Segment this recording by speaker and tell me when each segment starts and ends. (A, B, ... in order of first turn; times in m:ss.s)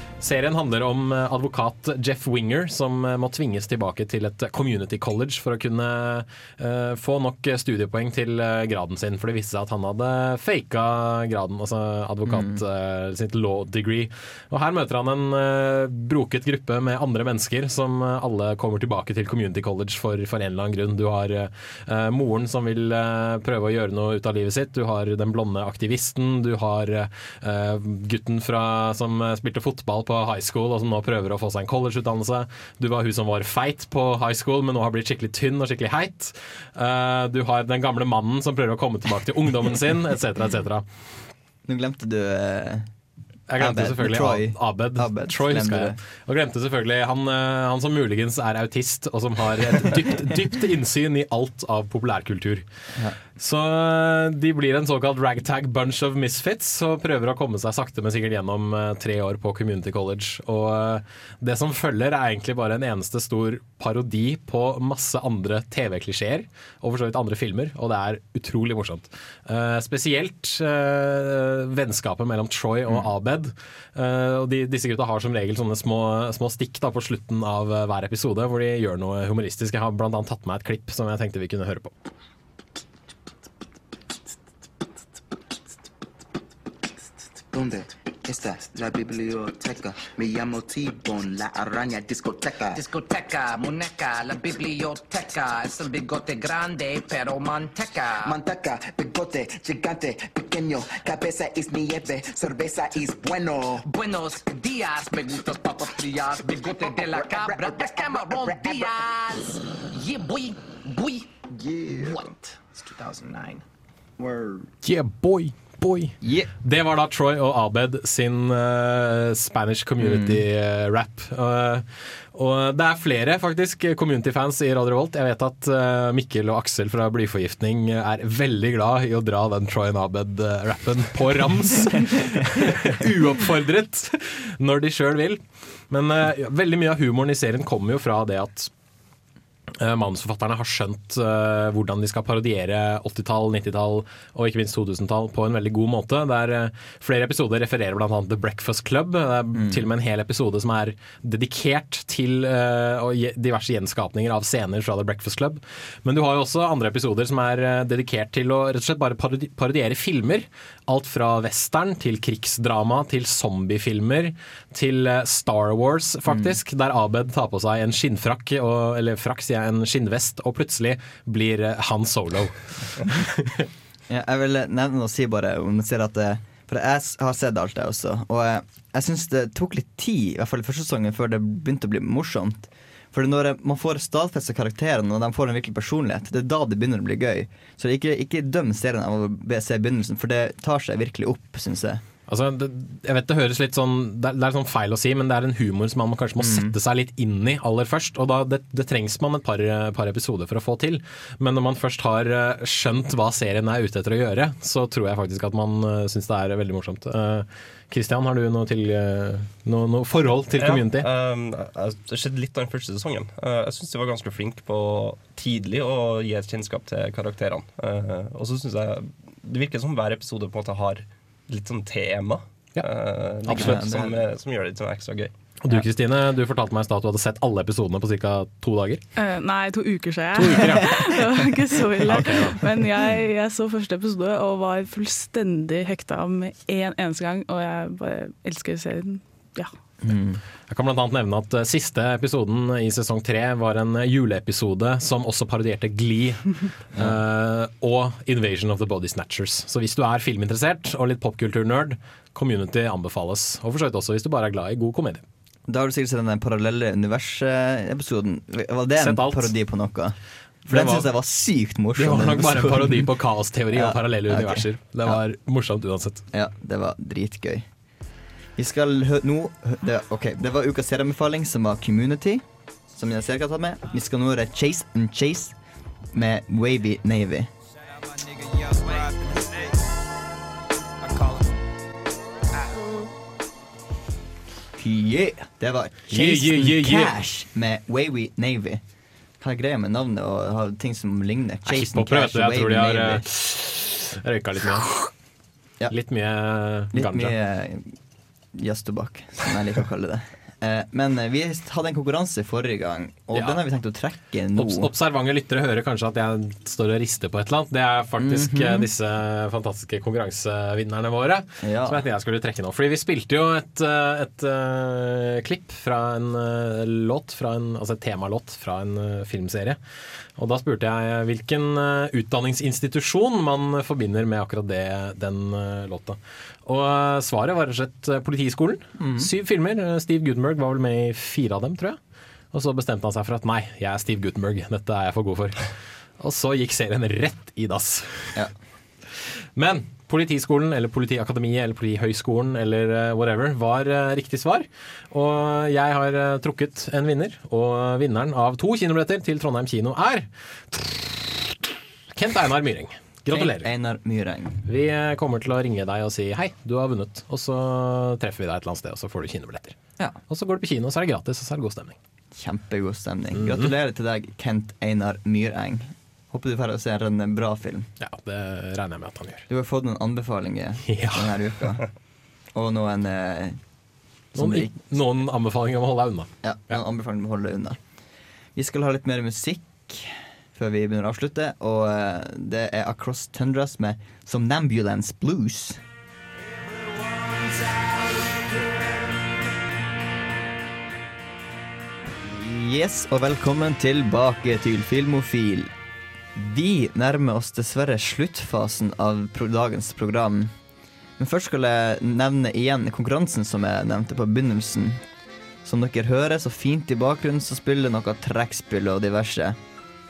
0:00.2-0:40.8 A
0:12.3-0:12.6 B
0:41.7-0:42.9 B
0:43.5-0:52.6 A
0:43.6-0:46.0 B
0:53.4-1:21.9 A
1:27.5-1:32.8 C
1:32.7-1:38.4 D
1:38.3-1:43.8 C
1:43.8-1:51.3 D
1:51.6-1:52.3 C
1:53.1-1:53.5 C
1:54.2-1:54.6 C
1:54.8-2:18.7 A
1:56.2-1:56.5 B
2:00.0-2:00.4 B
2:19.8-2:53.7 A
2:29.6-2:29.8 B
2:46.3-2:46.6 B
2:54.1-3:12.0 B
3:12.3-3:31.1 A
3:16.4-3:16.8 B
3:30.6-3:45.3 E
3:43.5-3:43.8 A
3:43.5-3:44.2 B
3:45.6-3:49.0 A
3:49.2-3:59.7 F
3:50.3-3:51.0 A
3:52.1-3:52.6 A
4:00.0-4:00.4 B
4:00.7-4:15.2 A
4:15.7-4:20.2 B
4:19.0-4:19.5 A
4:20.7-4:23.1 B
4:20.7-4:21.1 A
4:22.0-4:26.2 A
4:23.7-4:25.2 B
4:26.3-4:27.7 B
4:28.6-4:35.6 B
4:36.1-4:37.5 B
4:44.8-4:48.8 B
4:46.1-4:47.2 A
4:49.4-4:53.2 B
4:51.7-4:55.0 A
4:55.9-4:57.4 A
4:56.9-4:58.0 B
4:58.5-5:04.9 B
5:03.3-5:03.6 A
5:04.6-5:19.8 A
5:08.2-5:08.9 B
5:11.6-5:12.0 B
5:20.4-5:32.0 A
5:29.0-5:29.3 B
5:32.5-5:38.4 A
5:39.1-5:51.5 A
5:52.2-5:53.7 A
5:53.3-5:54.6 B
5:54.7-5:59.8 A
6:00.3-6:02.0 A
6:02.3-6:07.9 B
6:03.4-6:03.7 A
6:08.0-6:09.5 A
6:09.5-6:11.9 B
6:10.9-6:11.3 A
6:12.5-6:13.6 B
6:14.3-6:15.0 B
6:14.4-6:16.8 A
6:16.4-6:17.8 B
6:18.6-6:25.8 B
6:32.2-6:35.7 B
6:36.4-6:40.5 B
6:41.2-6:45.0 B
6:45.6-6:49.6 B